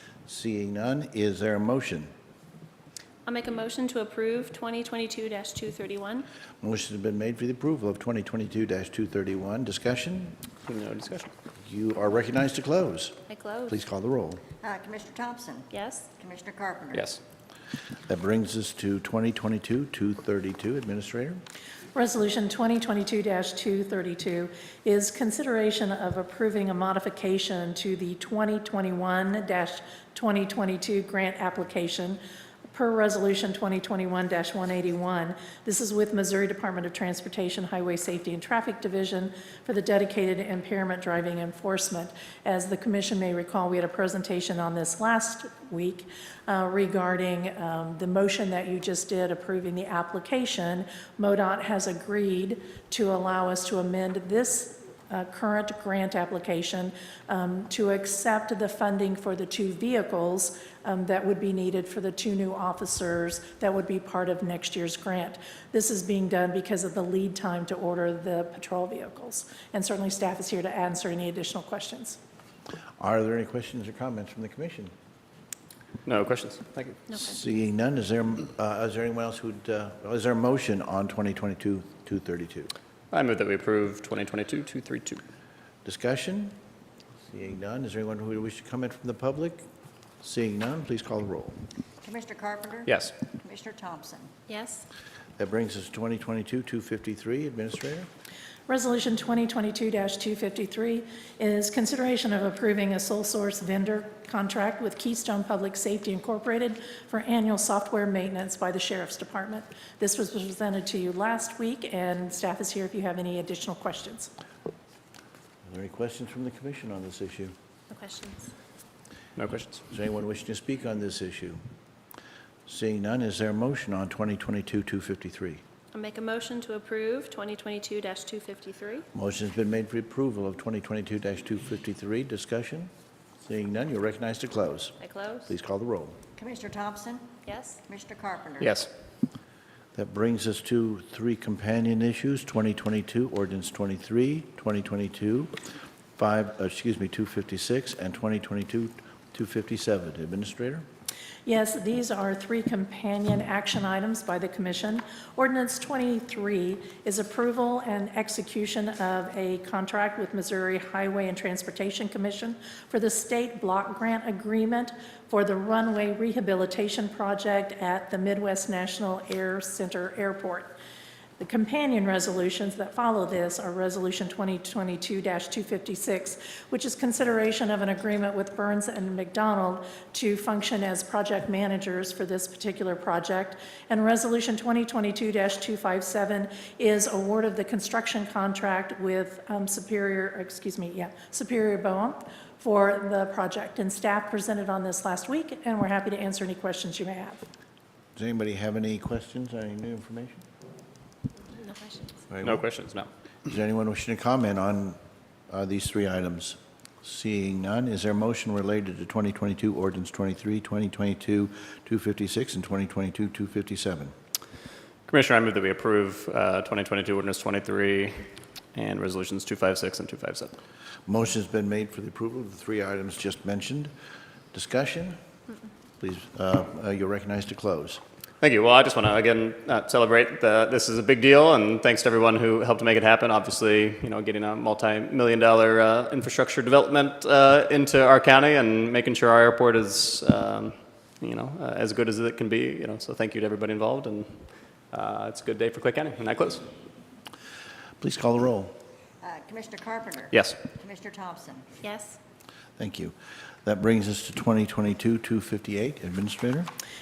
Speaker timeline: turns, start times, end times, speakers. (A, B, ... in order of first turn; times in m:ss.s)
0:00.2-0:02.1 A
0:03.2-0:06.3 B
0:06.6-0:10.4 A
0:10.6-0:11.3 C
0:11.6-0:14.4 A
0:13.3-0:13.7 B
0:14.6-0:17.1 D
0:15.7-0:16.1 B
0:16.9-0:17.2 C
0:18.1-0:21.4 A
0:21.9-0:32.2 E
0:32.7-1:12.2 E
1:13.0-1:14.9 A
1:16.0-1:17.0 C
1:17.1-1:17.3 B
1:17.2-1:22.7 A
1:23.1-1:25.2 C
1:25.8-1:26.5 A
1:27.3-1:29.6 A
1:30.2-1:31.6 A
1:32.0-1:34.3 D
1:32.8-1:33.1 C
1:34.5-1:34.8 B
1:35.4-1:38.1 A
1:38.7-1:54.3 E
1:55.6-1:57.5 A
1:57.9-1:58.5 B
1:59.4-1:59.8 C
1:59.9-2:01.6 A
2:02.7-2:05.6 A
2:05.9-2:09.0 B
2:09.1-2:12.9 A
2:13.4-2:16.2 A
2:16.4-2:17.3 D
2:17.5-2:17.8 B
2:17.8-2:18.7 D
2:18.6-2:18.9 C
2:19.9-2:25.5 A
2:26.2-2:30.8 A
2:31.4-2:50.7 E
2:51.4-3:17.4 E
3:18.2-3:20.4 A
3:21.5-3:22.1 B
3:22.3-3:22.6 A
3:22.4-3:23.1 C
3:23.5-3:25.0 A
3:25.5-3:34.1 A
3:35.1-3:40.5 C
3:41.1-3:43.9 A
3:44.5-3:45.2 A
3:46.0-3:48.0 A
3:48.4-4:04.4 C
4:04.9-4:06.6 C
4:08.0-4:08.7 A
4:09.2-4:11.8 D
4:10.3-4:10.6 C
4:11.8-4:12.2 B
4:12.8-4:16.7 A